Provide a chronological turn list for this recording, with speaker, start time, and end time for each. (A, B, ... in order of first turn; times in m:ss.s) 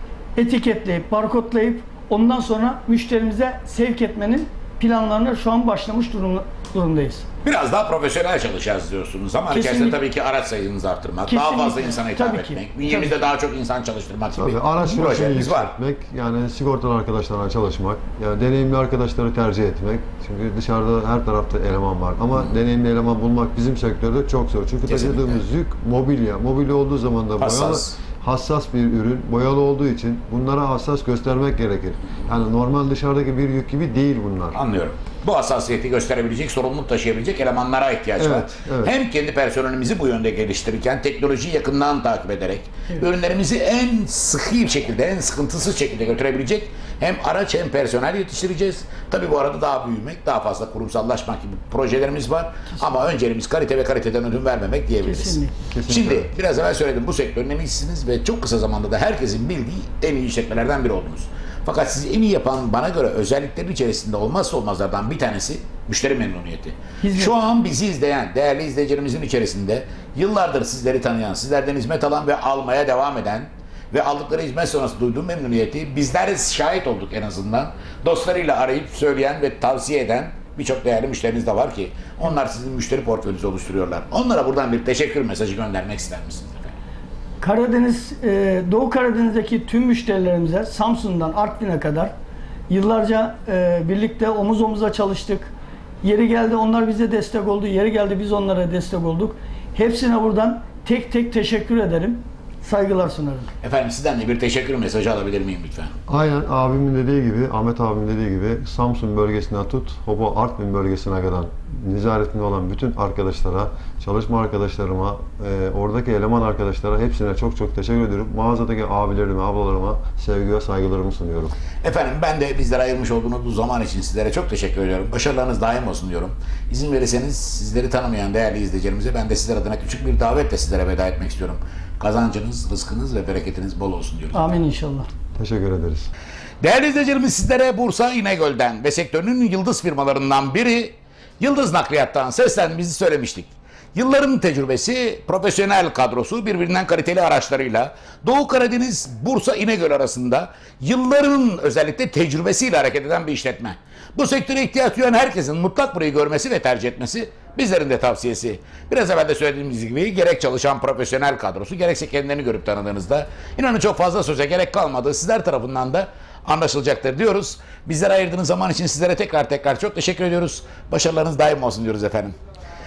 0:00.4-0:07.2 A
0:07.4-0:15.7 B
0:09.5-0:10.0 A
0:11.2-0:13.3 A
0:14.3-0:34.6 C
0:24.8-0:25.4 B
0:27.4-0:28.0 B
0:34.5-1:26.7 B
0:38.2-0:38.9 C
0:55.0-0:55.5 A
0:55.7-0:56.3 C
1:07.0-1:07.4 A
1:27.4-1:32.1 A
1:32.7-1:43.5 A
1:43.6-1:45.9 B
1:46.1-2:01.5 C
2:01.8-2:14.5 B
2:14.3-2:15.1 A
2:15.4-2:16.1 C
2:16.6-2:52.3 B